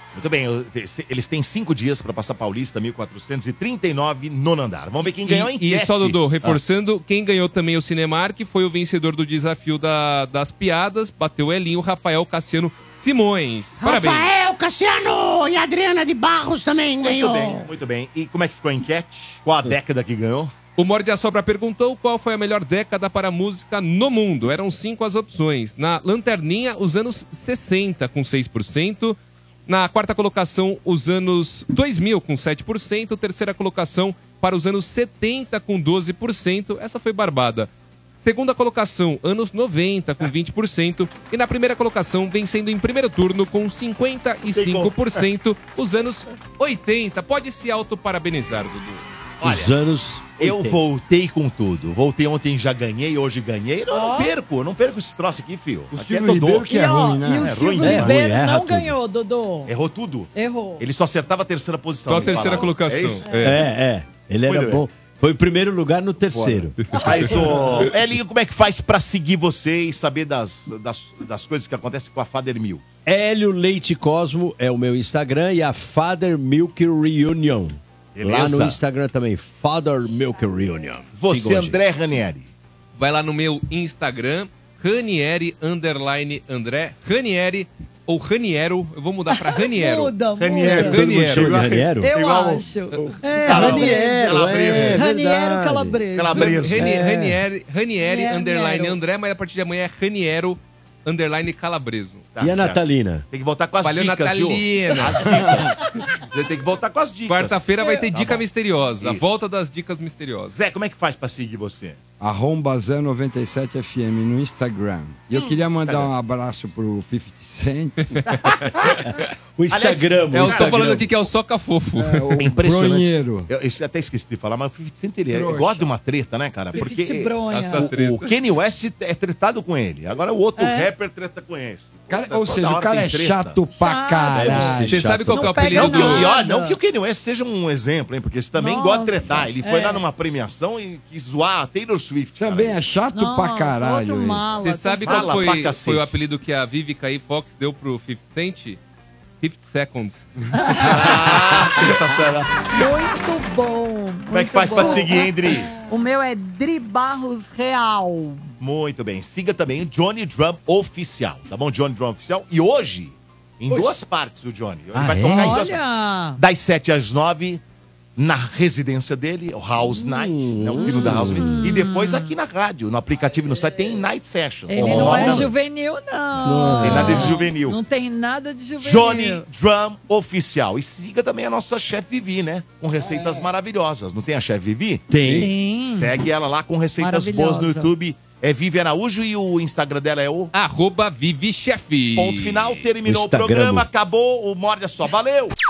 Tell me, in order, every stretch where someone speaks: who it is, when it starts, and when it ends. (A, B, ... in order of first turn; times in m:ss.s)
0:00.1-0:06.6 A
0:05.0-0:14.4 B
0:13.8-0:17.7 C
0:17.0-0:20.5 A
0:20.8-0:37.7 B
0:38.2-0:49.0 B
0:44.4-0:45.2 A
0:49.4-0:49.7 A
0:49.4-0:50.8 D
0:50.4-0:56.7 A
0:53.9-0:54.3 E
0:55.9-0:57.7 F
0:56.6-0:59.7 E
0:57.3-0:58.2 A
0:57.8-0:59.0 D
0:59.6-1:03.3 A
1:00.3-1:00.8 E
1:02.1-1:03.6 B
1:02.2-1:02.7 E
1:03.4-1:06.7 D
1:04.4-1:04.8 A
1:06.3-1:06.7 F
1:06.8-1:07.3 B
1:06.9-1:07.4 E
1:06.9-1:12.8 A
1:13.0-1:21.8 D
1:18.1-1:18.8 A
1:21.2-1:22.5 A
1:23.0-1:30.2 B
1:29.3-1:31.0 E
1:30.4-1:35.0 A
1:30.7-1:32.1 D
1:30.7-1:31.5 B
1:32.0-1:36.6 E
1:33.2-1:37.4 D
1:36.1-1:36.9 A
1:36.3-1:42.3 B
1:38.0-1:39.0 E
1:42.3-1:48.4 A
1:42.4-1:43.2 D
1:43.8-1:45.6 B
1:45.4-1:45.7 D
1:47.3-1:50.6 B
1:49.0-1:49.4 A
1:50.5-1:52.0 A
1:52.2-1:58.2 F
1:55.3-1:56.1 A
1:58.7-1:59.2 B
1:59.1-2:01.0 D
1:59.7-2:01.0 A
2:00.3-2:02.4 B
2:02.0-2:03.5 F
2:02.4-2:13.6 A
2:05.3-2:05.9 F
2:06.7-2:07.9 E
2:07.5-2:08.4 B
2:10.6-2:10.9 E
2:12.1-2:15.0 F
2:13.8-2:14.8 E
2:14.3-2:15.7 D
2:14.9-2:16.3 B
2:15.3-2:16.8 E
2:15.7-2:22.8 A
2:18.6-2:20.0 E
2:22.4-2:24.5 F
2:23.1-2:25.3 E
2:24.6-2:28.8 B
2:25.0-2:26.1 A
2:29.4-2:30.2 B
2:30.5-2:31.2 E
2:30.8-2:32.7 A
2:32.7-2:38.5 E
2:34.3-2:35.7 A
2:38.6-2:45.8 A
2:43.7-2:43.9 D
2:44.9-2:45.8 D
2:45.3-2:46.4 E
2:46.4-2:47.6 A
2:48.2-2:55.5 A
2:49.8-2:51.6 D
2:50.8-2:52.3 E
2:54.7-2:59.4 E
2:54.7-2:55.5 D
2:56.4-2:57.4 D
2:56.8-2:57.8 A
2:58.8-3:10.5 A
3:03.0-3:03.5 F
3:05.1-3:05.5 D
3:05.3-3:06.1 E
3:07.0-3:07.9 E
3:10.5-3:12.9 B
3:12.2-3:15.5 A
3:13.0-3:13.9 D